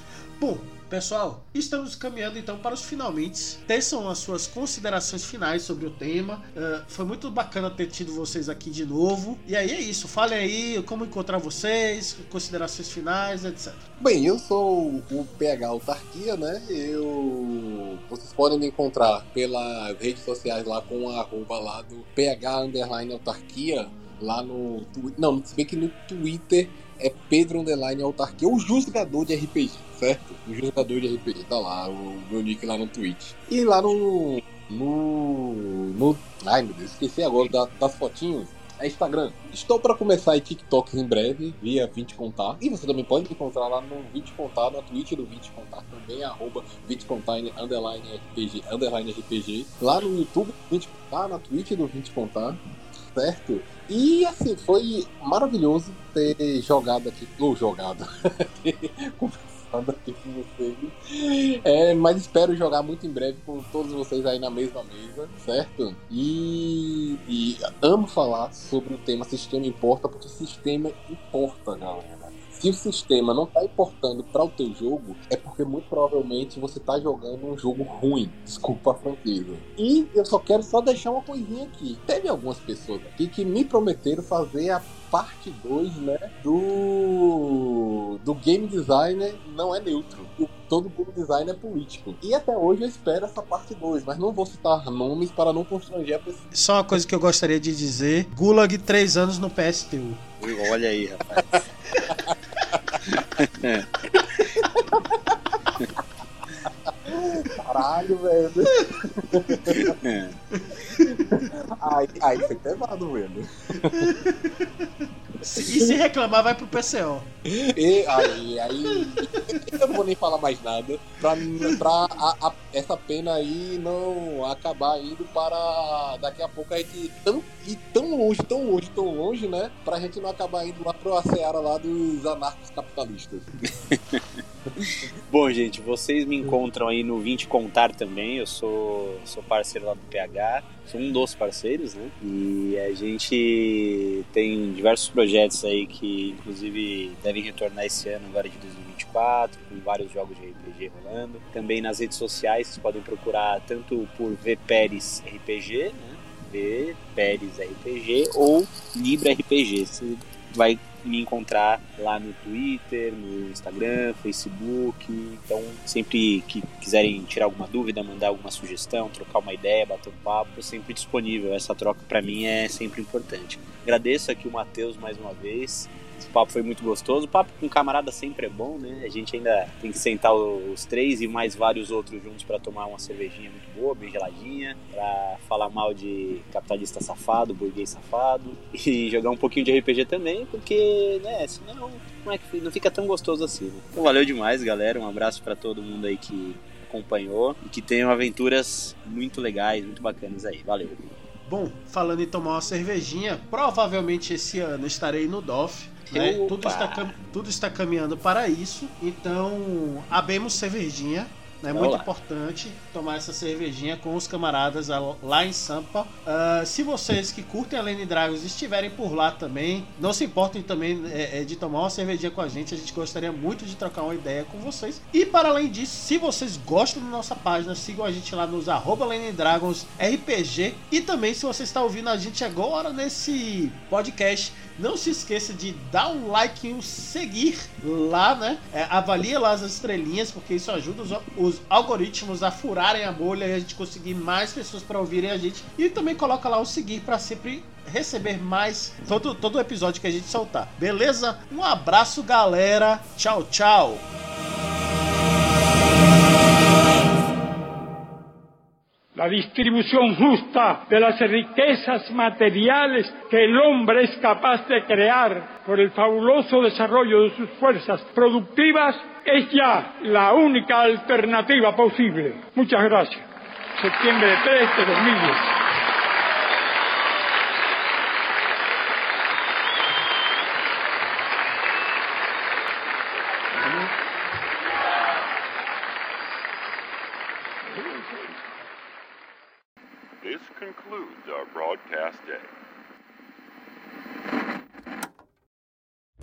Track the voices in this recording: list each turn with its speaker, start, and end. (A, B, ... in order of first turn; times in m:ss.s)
0:00.4-0:13.9 A
0:14.0-0:52.6 B
0:53.1-1:36.5 B
1:36.5-1:40.4 A
1:40.4-1:41.6 C
1:42.0-1:42.2 A
1:43.0-1:43.9 C
1:44.4-1:45.4 B
1:47.1-1:50.0 B
1:49.3-1:49.7 A
1:49.7-1:50.4 C
1:50.5-1:51.5 A
1:51.1-1:54.0 B
1:53.8-1:54.9 A
1:55.4-1:57.3 A
1:55.6-1:55.9 B
1:57.5-2:13.7 B
1:59.2-1:59.5 A
2:13.9-2:14.2 C
2:15.3-3:21.1 C
3:21.5-4:14.1 A
3:26.1-3:27.1 C
3:31.7-3:32.1 C
4:19.2-4:33.3 D
4:33.8-4:35.6 D
4:50.2-4:52.5 E